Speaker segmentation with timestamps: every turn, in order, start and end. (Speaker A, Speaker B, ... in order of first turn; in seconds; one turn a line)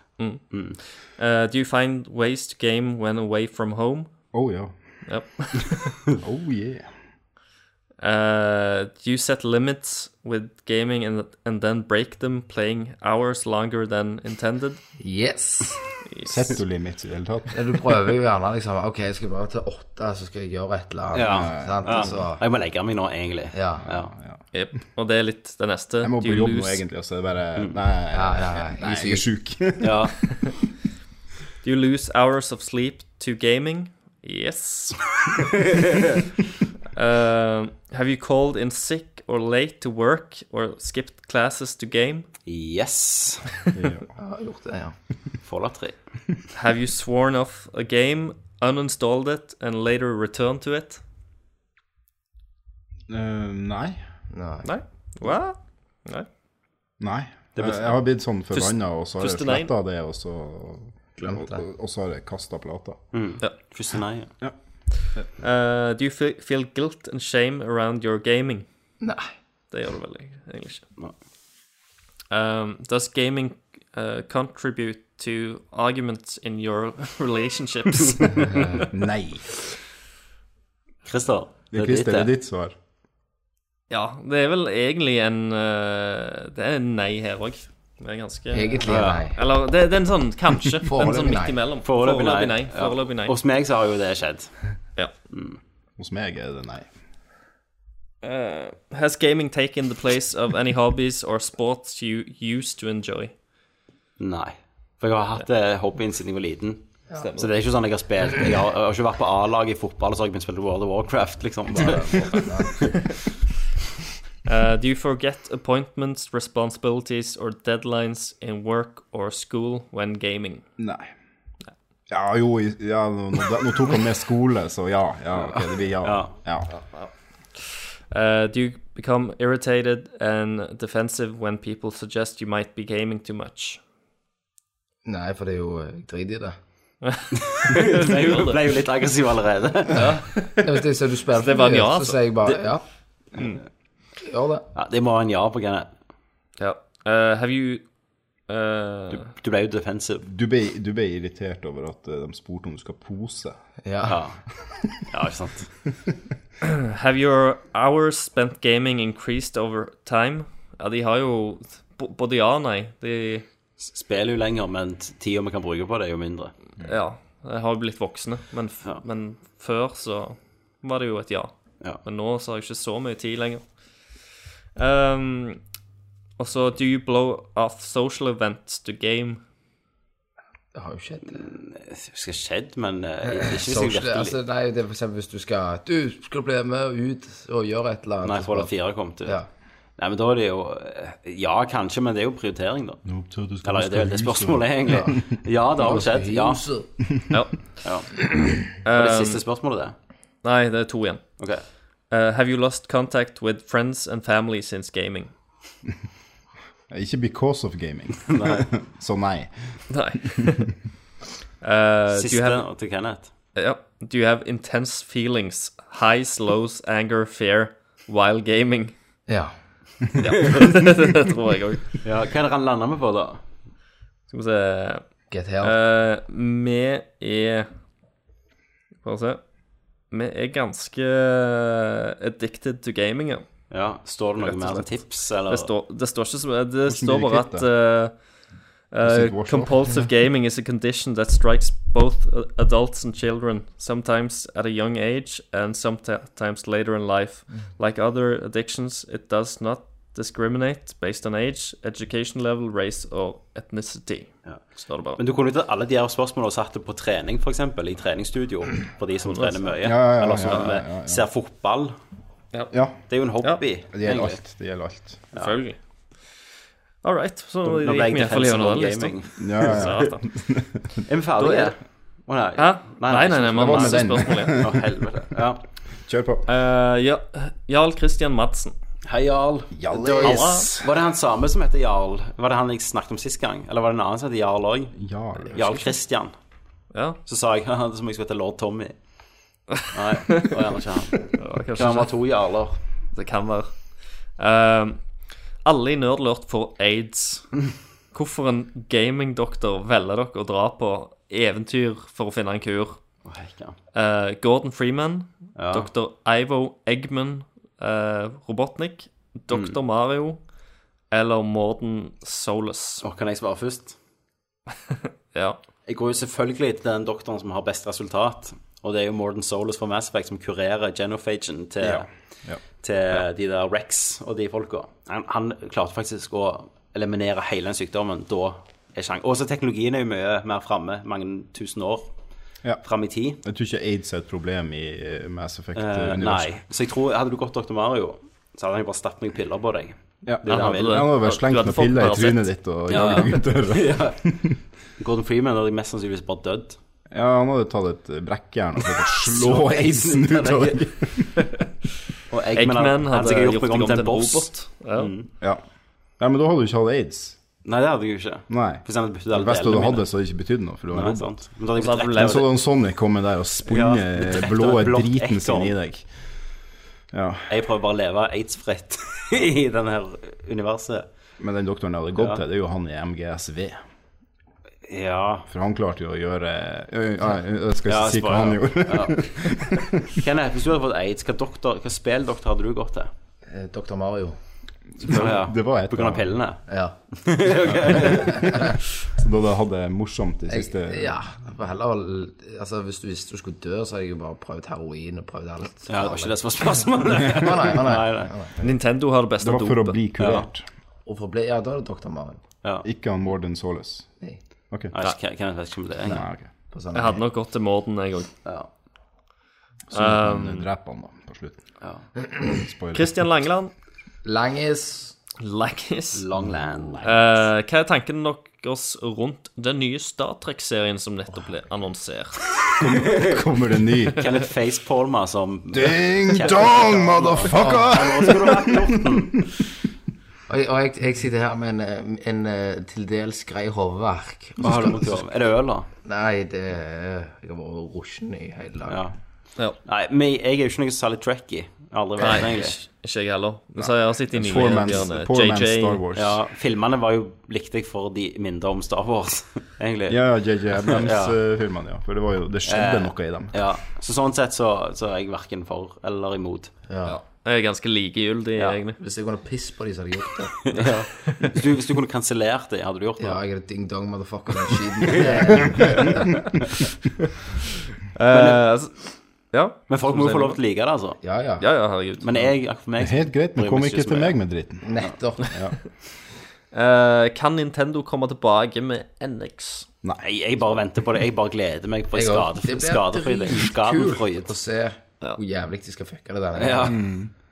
Speaker A: 0.2-4.1
Speaker B: 0.5-0.8
Speaker C: 4.3-4.7
Speaker A: 5.1-6.0
Speaker C: 6.2-6.9
Speaker A: 8.0-14.8
Speaker D: 15.0-15.8
Speaker A: 16.1-16.6
Speaker C: 16.2-18.0
Speaker D: 17.5-22.4
Speaker B: 21.1-24.1
Speaker C: 21.2-22.1
Speaker D: 23.5-23.8
Speaker C: 23.8-24.4
Speaker A: 24.5-26.8
Speaker C: 26.0-30.1
Speaker D: 28.1-29.3
Speaker B: 29.8-30.2
Speaker A: 31.6-35.2
Speaker A: 36.9-42.3
Speaker B: 42.5-43.5
Speaker C: 43.7-44.0
Speaker D: 44.2-44.9
Speaker B: 45.4-46.0
Speaker A: 46.5-51.0
Speaker C: 53.1-54.0
Speaker D: 54.3-54.6
Speaker A: 54.6-56.3
Speaker C: 57.0-63.0
Speaker B: 57.5-57.9
Speaker A: 58.5-59.7
Speaker D: 61.2-61.6
Speaker B: 63.1-64.3
Speaker A: 65.4-68.7
Speaker D: 69.0-69.3
Speaker A: 69.7-70.8
Speaker A: 72.3-78.8
Speaker C: 78.8-79.6
Speaker B: 81.0-82.3
Speaker C: 81.7-82.7
Speaker A: 83.9-93.3
Speaker D: 88.5-89.4
Speaker B: 88.9-89.3
Speaker D: 90.9-91.6
Speaker B: 91.8-94.6
Speaker B: 95.3-95.6
Speaker C: 96.0-96.9
Speaker A: 98.2-103.3
Speaker B: 104.2-112.9
Speaker A: 107.1-107.5
Speaker D: 111.7-112.9
Speaker A: 114.4-120.6
Speaker C: 120.8-121.1
Speaker C: 122.1-126.7
Speaker B: 126.0-126.3
Speaker A: 126.9-133.8
Speaker D: 135.0-136.6
Speaker A: 137.0-138.6
Speaker B: 137.6-140.1
Speaker A: 139.9-140.6
Speaker D: 139.9-142.8
Speaker A: 141.3-142.2
Speaker D: 144.2-144.6
Speaker B: 144.7-145.9
Speaker A: 146.6-147.9
Speaker A: 148.5-149.2
Speaker B: 149.1-150.2
Speaker C: 150.2-153.6
Speaker D: 153.8-154.2
Speaker B: 154.1-154.4
Speaker B: 155.0-155.7
Speaker A: 156.6-163.4
Speaker B: 163.8-166.5
Speaker A: 166.8-173.7
Speaker A: 174.8-175.6
Speaker A: 176.4-179.4
Speaker D: 180.7-181.5
Speaker B: 181.3-184.3
Speaker D: 183.3-188.7
Speaker B: 188.2-189.4
Speaker B: 190.0-193.0
Speaker C: 193.0-195.1
Speaker B: 193.6-196.6
Speaker D: 195.8-196.9
Speaker A: 197.3-197.7
Speaker B: 197.8-198.2
Speaker A: 198.8-199.4
Speaker B: 198.9-199.9
Speaker A: 200.4-201.4
Speaker B: 201.4-201.6
Speaker A: 202.1-205.3
Speaker C: 206.9-209.8
Speaker B: 208.3-208.7
Speaker A: 209.9-210.8
Speaker A: 211.6-212.6
Speaker B: 212.1-213.3
Speaker A: 213.6-218.9
Speaker D: 219.3-219.5
Speaker A: 220.2-221.9
Speaker B: 222.0-223.4
Speaker A: 224.3-225.0
Speaker D: 225.3-225.7
Speaker A: 225.6-227.7
Speaker A: 229.0-229.4
Speaker A: 230.1-233.4
Speaker B: 233.7-235.7
Speaker A: 234.4-234.9
Speaker A: 235.5-238.1
Speaker C: 236.8-237.7
Speaker A: 238.9-255.2
Speaker C: 239.0-240.0
Speaker B: 254.4-261.9
Speaker A: 259.2-259.8
Speaker C: 259.8-261.2
Speaker C: 262.7-263.0
Speaker B: 263.1-264.4
Speaker C: 263.9-265.2
Speaker A: 265.3-265.8
Speaker A: 267.0-270.2
Speaker B: 267.6-270.1
Speaker C: 269.4-271.0
Speaker B: 271.1-275.6
Speaker A: 271.4-271.7
Speaker A: 272.6-274.6
Speaker C: 273.5-274.9
Speaker C: 276.1-276.5
Speaker A: 276.5-278.7
Speaker B: 279.1-285.0
Speaker C: 279.7-280.9
Speaker A: 280.2-280.7
Speaker C: 284.9-285.9
Speaker B: 285.5-286.3
Speaker A: 286.9-287.2
Speaker B: 287.2-288.9
Speaker B: 289.9-292.8
Speaker A: 291.4-292.1
Speaker A: 293.1-293.8
Speaker A: 294.4-295.1
Speaker A: 295.6-297.6
Speaker A: 298.1-303.0
Speaker B: 303.2-303.8
Speaker A: 303.9-310.4
Speaker B: 305.6-305.9
Speaker B: 309.5-309.8
Speaker A: 311.1-313.0
Speaker B: 313.0-313.9
Speaker A: 315.3-315.6
Speaker B: 315.9-322.1
Speaker C: 321.8-322.6
Speaker B: 322.8-332.1
Speaker B: 332.8-333.4
Speaker C: 333.4-336.6
Speaker B: 335.7-341.1
Speaker C: 340.2-344.6
Speaker A: 340.4-343.4
Speaker B: 342.9-344.4
Speaker B: 345.0-346.8
Speaker C: 347.1-351.5
Speaker B: 349.2-350.9
Speaker B: 352.3-355.3
Speaker A: 352.5-355.1
Speaker C: 356.2-357.4
Speaker B: 357.6-360.1
Speaker C: 358.5-361.3
Speaker B: 360.9-362.4
Speaker A: 361.8-362.5
Speaker C: 362.1-366.1
Speaker B: 363.6-365.7
Speaker C: 367.1-367.5
Speaker B: 367.5-371.1
Speaker C: 371.4-373.8
Speaker B: 374.9-375.5
Speaker C: 375.5-380.2
Speaker B: 377.9-383.1
Speaker D: 383.4-384.4
Speaker C: 385.0-386.4
Speaker B: 385.0-388.5
Speaker D: 386.7-386.9
Speaker C: 387.6-391.1
Speaker D: 390.5-396.4
Speaker B: 395.9-398.3
Speaker D: 397.1-398.6
Speaker A: 398.6-400.0
Speaker C: 399.4-400.7
Speaker B: 400.2-400.5
Speaker D: 401.1-402.4
Speaker C: 402.8-404.1
Speaker B: 404.9-406.2
Speaker C: 406.0-406.5
Speaker D: 406.7-407.2
Speaker A: 406.9-408.3
Speaker C: 409.9-411.6
Speaker A: 409.9-410.6
Speaker C: 412.5-413.2
Speaker A: 412.9-413.7
Speaker D: 414.2-415.1
Speaker A: 415.4-416.2
Speaker B: 416.1-417.4
Speaker A: 417.0-422.5
Speaker C: 422.7-424.3
Speaker B: 423.0-423.4
Speaker B: 424.2-429.4
Speaker C: 425.7-429.1
Speaker D: 427.4-427.9
Speaker D: 430.5-435.0
Speaker B: 434.6-435.9
Speaker D: 436.0-439.0
Speaker B: 438.9-439.1
Speaker B: 439.8-442.8
Speaker A: 442.2-446.0
Speaker C: 443.8-446.4
Speaker B: 446.1-450.2
Speaker C: 450.1-453.6
Speaker B: 450.8-451.4
Speaker B: 452.7-456.7
Speaker D: 456.9-457.2
Speaker A: 457.0-459.0
Speaker D: 459.0-460.5
Speaker B: 460.6-463.4
Speaker A: 460.7-461.5
Speaker D: 463.2-466.4
Speaker B: 465.1-466.1
Speaker C: 465.6-466.0
Speaker A: 468.1-470.6
Speaker B: 468.3-468.6
Speaker B: 469.9-471.2
Speaker D: 471.2-471.7
Speaker A: 471.6-472.4
Speaker B: 472.2-474.4
Speaker C: 473.0-474.8
Speaker D: 474.8-475.5
Speaker C: 475.4-475.8
Speaker A: 476.7-479.9
Speaker B: 480.2-484.5
Speaker D: 482.1-486.9
Speaker B: 486.6-487.0
Speaker C: 486.9-487.3